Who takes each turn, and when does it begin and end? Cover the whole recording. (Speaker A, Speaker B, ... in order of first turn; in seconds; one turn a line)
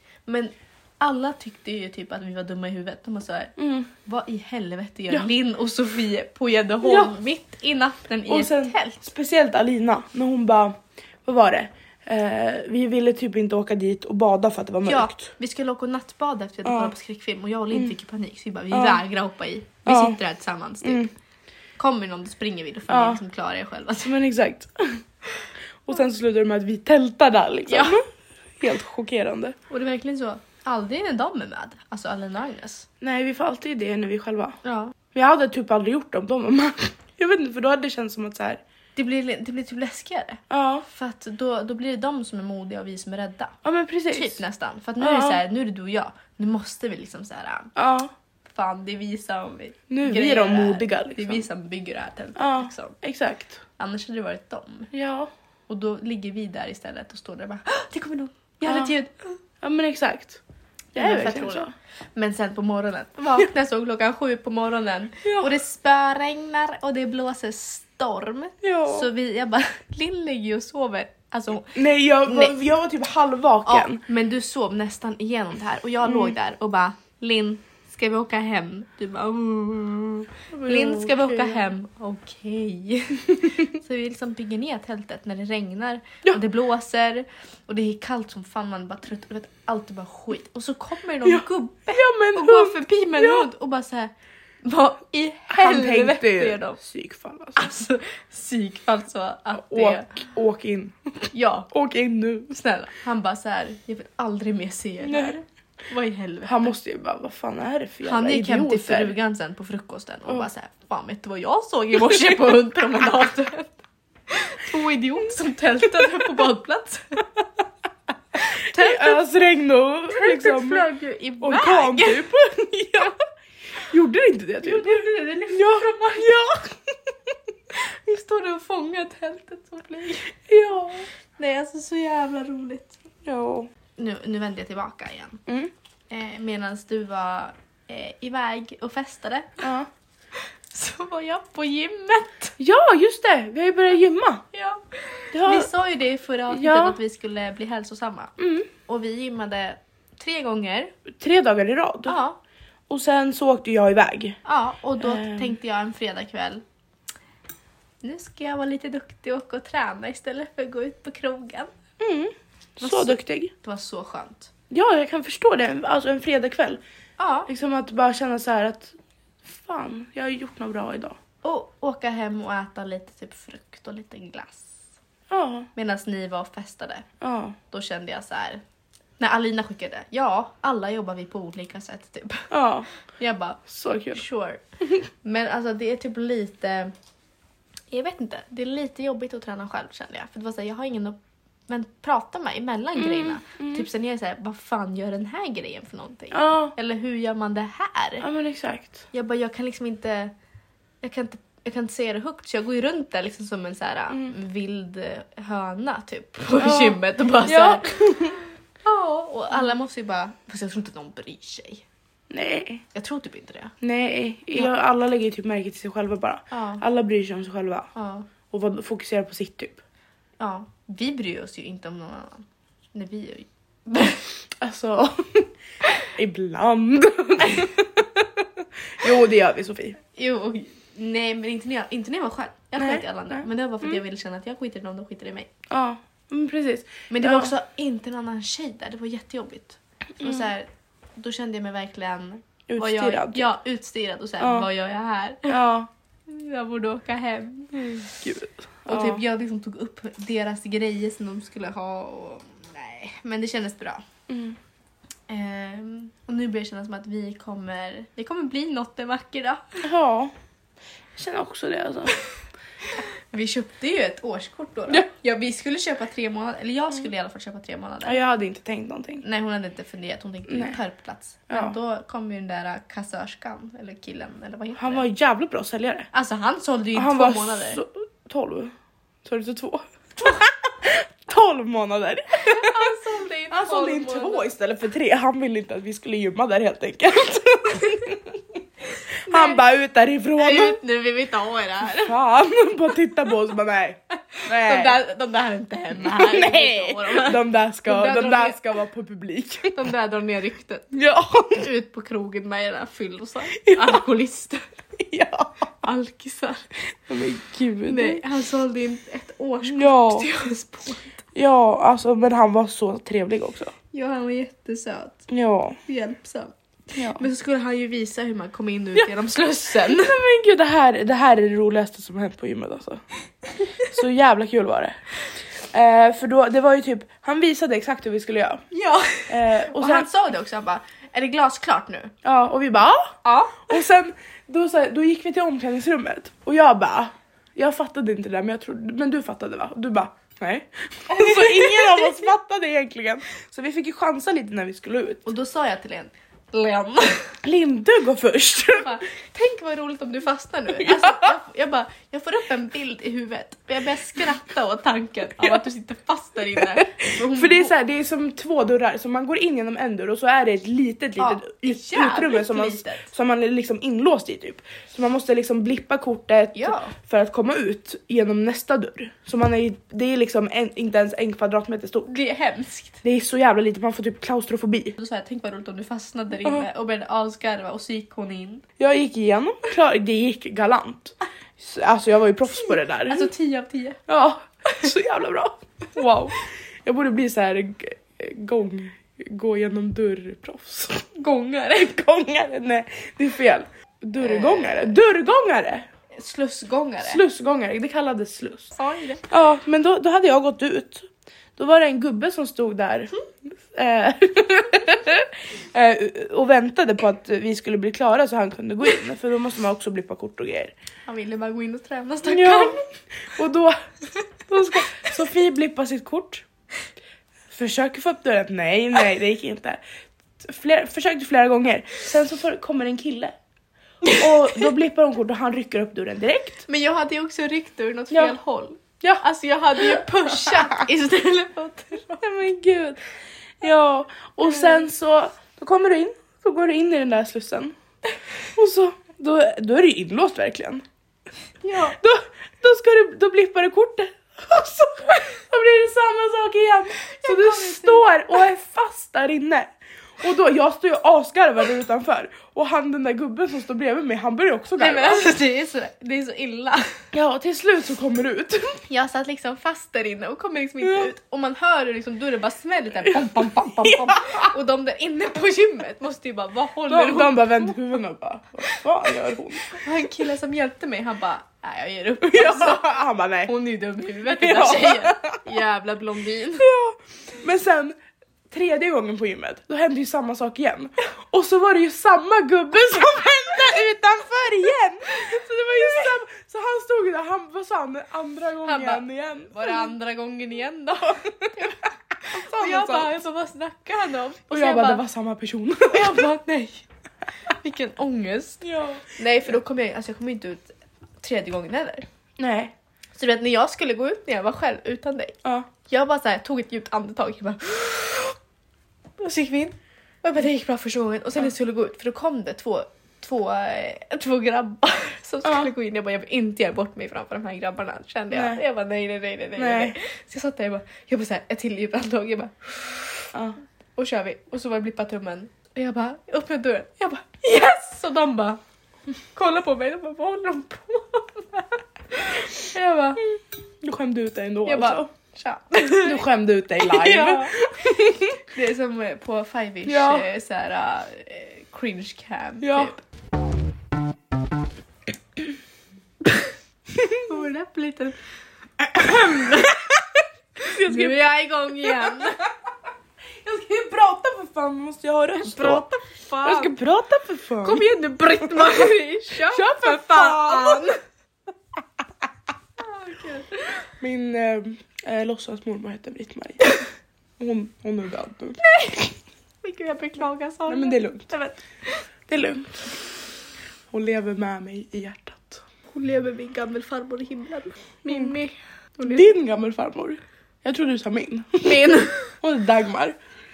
Speaker A: 0.3-9.0
Speaker B: 3.6-3.9
Speaker B: 6.8-7.2
Speaker B: 8.3-15.3
Speaker A: 14.8-21.1
Speaker B: 16.6-16.9
Speaker B: 18.7-19.0
Speaker B: 19.9-20.2
Speaker B: 20.8-21.1
Speaker A: 21.8-24.2
Speaker B: 22.9-23.2
Speaker B: 24.0-25.0
Speaker B: 25.8-28.0
Speaker A: 27.7-28.0
Speaker B: 28.6-29.6
Speaker A: 29.7-32.9
Speaker B: 33.0-34.6
Speaker A: 34.6-34.9
Speaker B: 35.1-38.6
Speaker A: 39.0-43.6
Speaker B: 40.5-40.9
Speaker B: 43.6-44.4
Speaker A: 44.1-47.7
Speaker B: 45.0-45.4
Speaker B: 47.8-48.1
Speaker A: 48.5-53.0
Speaker B: 49.9-51.4
Speaker B: 52.4-53.6
Speaker A: 53.8-54.9
Speaker B: 54.9-55.3
Speaker A: 55.7-59.4
Speaker B: 58.6-59.0
Speaker B: 59.6-60.4
Speaker A: 60.9-72.6
Speaker B: 61.0-61.7
Speaker B: 65.2-65.5
Speaker B: 68.6-69.1
Speaker B: 71.7-74.0
Speaker A: 73.7-94.1
Speaker B: 76.0-76.3
Speaker B: 80.5-81.7
Speaker B: 91.2-93.5
Speaker A: 94.6-96.8
Speaker B: 95.5-97.7
Speaker A: 97.6-100.1
Speaker B: 99.5-102.6
Speaker A: 101.3-101.7
Speaker A: 102.5-106.8
Speaker B: 105.0-105.4
Speaker B: 106.5-109.1
Speaker A: 108.0-113.8
Speaker A: 114.3-117.2
Speaker A: 118.4-119.2
Speaker B: 118.5-120.9
Speaker A: 120.1-123.1
Speaker B: 121.4-123.1
Speaker B: 123.8-127.1
Speaker A: 124.6-126.4
Speaker A: 127.7-130.4
Speaker B: 130.5-131.1
Speaker A: 131.4-133.0
Speaker B: 133.2-133.7
Speaker A: 134.0-135.4
Speaker B: 135.5-135.7
Speaker A: 136.1-139.6
Speaker B: 139.6-139.9
Speaker A: 140.7-142.5
Speaker B: 142.6-144.4
Speaker A: 144.5-150.9
Speaker B: 145.3-145.7
Speaker B: 146.5-147.0
Speaker B: 148.4-148.7
Speaker B: 151.1-152.2
Speaker A: 152.1-152.4
Speaker B: 152.9-154.4
Speaker A: 154.4-156.6
Speaker B: 155.0-155.6
Speaker A: 158.0-161.7
Speaker B: 162.0-163.5
Speaker A: 162.8-164.5
Speaker B: 164.7-166.8
Speaker A: 167.2-167.5
Speaker B: 167.5-171.2
Speaker A: 171.4-174.8
Speaker B: 175.3-175.7
Speaker A: 175.8-177.1
Speaker B: 177.2-177.6
Speaker A: 177.7-178.6
Speaker A: 179.2-182.5
Speaker B: 182.5-182.9
Speaker A: 183.2-184.6
Speaker B: 183.7-184.2
Speaker A: 185.2-186.9
Speaker A: 187.9-191.2
Speaker A: 191.7-198.3
Speaker B: 193.0-193.9
Speaker B: 196.3-196.7
Speaker B: 198.2-199.1
Speaker A: 199.1-200.3
Speaker A: 201.0-208.2
Speaker B: 206.6-208.4
Speaker A: 208.8-211.8
Speaker B: 212.3-212.8
Speaker A: 212.9-213.8
Speaker B: 213.8-217.9
Speaker A: 216.5-216.8
Speaker A: 217.9-218.3
Speaker B: 218.5-219.8
Speaker A: 220.4-224.3
Speaker B: 224.6-225.5
Speaker B: 226.1-230.0
Speaker A: 230.1-235.5
Speaker B: 232.8-234.0
Speaker B: 235.7-237.5
Speaker A: 237.1-245.6
Speaker B: 240.2-240.5
Speaker B: 242.7-243.5
Speaker B: 244.4-244.7
Speaker B: 245.5-245.9
Speaker A: 246.3-248.0
Speaker B: 247.7-249.2
Speaker A: 248.9-254.0
Speaker B: 254.3-254.6
Speaker A: 255.3-259.8
Speaker B: 259.8-260.3
Speaker B: 261.2-262.2
Speaker A: 263.0-268.2
Speaker B: 268.1-269.2
Speaker A: 269.2-275.1
Speaker B: 270.5-270.8
Speaker B: 271.5-271.8
Speaker B: 274.8-276.1
Speaker A: 276.1-277.8
Speaker B: 276.9-278.7
Speaker B: 279.2-282.9
Speaker A: 282.4-284.5
Speaker B: 283.5-288.6
Speaker A: 289.3-289.6
Speaker B: 289.3-290.8
Speaker A: 290.4-292.1
Speaker B: 291.9-295.0
Speaker A: 294.4-298.6
Speaker B: 295.9-299.7
Speaker A: 299.7-300.9
Speaker B: 300.9-301.7
Speaker A: 301.6-304.6
Speaker B: 303.6-304.0
Speaker B: 305.0-305.7
Speaker A: 305.8-306.7
Speaker B: 307.1-308.2
Speaker A: 307.9-311.2
Speaker B: 309.7-310.3
Speaker B: 311.4-313.7
Speaker A: 313.9-315.2
Speaker B: 315.3-315.8
Speaker A: 315.9-320.2
Speaker B: 317.0-317.2
Speaker B: 319.8-323.0
Speaker B: 323.8-325.0
Speaker B: 325.7-328.6
Speaker A: 328.7-332.1
Speaker B: 329.3-330.1
Speaker B: 332.2-345.2
Speaker A: 333.2-333.8
Speaker A: 341.1-342.2
Speaker A: 345.3-347.4
Speaker B: 347.4-349.0
Speaker A: 348.8-357.7
Speaker B: 350.8-351.3
Speaker B: 356.6-372.1
Speaker A: 361.2-363.1
Speaker A: 366.6-366.9
Speaker A: 372.1-373.0
Speaker B: 373.0-375.0
Speaker A: 375.0-378.6
Speaker B: 378.8-383.3
Speaker A: 382.6-384.0
Speaker B: 384.1-391.1
Speaker A: 391.1-392.0
Speaker B: 391.9-395.9
Speaker A: 394.2-394.9
Speaker A: 396.1-397.2
Speaker B: 397.0-398.7
Speaker A: 398.8-399.2
Speaker B: 399.3-410.7
Speaker A: 411.1-412.8
Speaker B: 412.2-412.8
Speaker B: 413.3-413.8
Speaker B: 414.5-416.4
Speaker B: 417.5-419.8
Speaker B: 420.4-423.4
Speaker B: 424.1-426.6
Speaker A: 426.7-432.2
Speaker B: 428.1-428.4
Speaker B: 429.8-430.8
Speaker B: 432.2-433.0
Speaker B: 433.6-437.8
Speaker B: 438.6-440.8
Speaker A: 441.6-442.0
Speaker B: 441.8-455.3
Speaker A: 447.1-448.1
Speaker A: 454.8-457.0
Speaker B: 457.1-458.8
Speaker A: 458.9-467.8
Speaker B: 460.8-461.1
Speaker B: 463.1-464.5
Speaker B: 466.9-469.8
Speaker A: 469.7-476.7
Speaker B: 472.2-473.5
Speaker B: 474.3-475.4
Speaker B: 476.6-478.0
Speaker B: 478.5-489.9
Speaker A: 488.6-495.0
Speaker B: 492.2-493.1
Speaker B: 494.5-496.3
Speaker A: 495.9-496.9
Speaker A: 497.5-498.6
Speaker B: 498.6-499.1
Speaker A: 499.2-502.1
Speaker B: 502.4-502.7
Speaker A: 503.1-508.4
Speaker A: 509.2-523.3
Speaker B: 515.4-515.7
Speaker B: 518.3-518.6
Speaker B: 519.6-520.0
Speaker A: 524.0-528.6
Speaker A: 529.3-533.2
Speaker B: 533.8-535.1
Speaker A: 534.7-536.2
Speaker B: 536.0-538.4
Speaker A: 536.8-543.0
Speaker B: 539.9-540.3
Speaker B: 542.6-542.9
Speaker B: 547.0-547.2
Speaker A: 547.2-548.2
Speaker A: 548.9-549.9
Speaker B: 549.0-549.9
Speaker B: 550.6-551.2
Speaker A: 550.6-552.5
Speaker B: 551.8-552.5
Speaker B: 553.4-555.9
Speaker A: 555.4-556.8
Speaker B: 556.4-557.9
Speaker A: 557.6-561.0
Speaker B: 558.4-560.9
Speaker A: 562.8-563.9
Speaker B: 564.0-566.8
Speaker B: 567.4-569.1
Speaker A: 568.8-569.0
Speaker A: 569.6-572.0
Speaker B: 570.7-571.3
Speaker B: 572.3-573.0
Speaker B: 573.9-575.6
Speaker A: 575.9-579.3
Speaker B: 578.1-578.4
Speaker B: 579.0-583.2
Speaker A: 581.6-582.3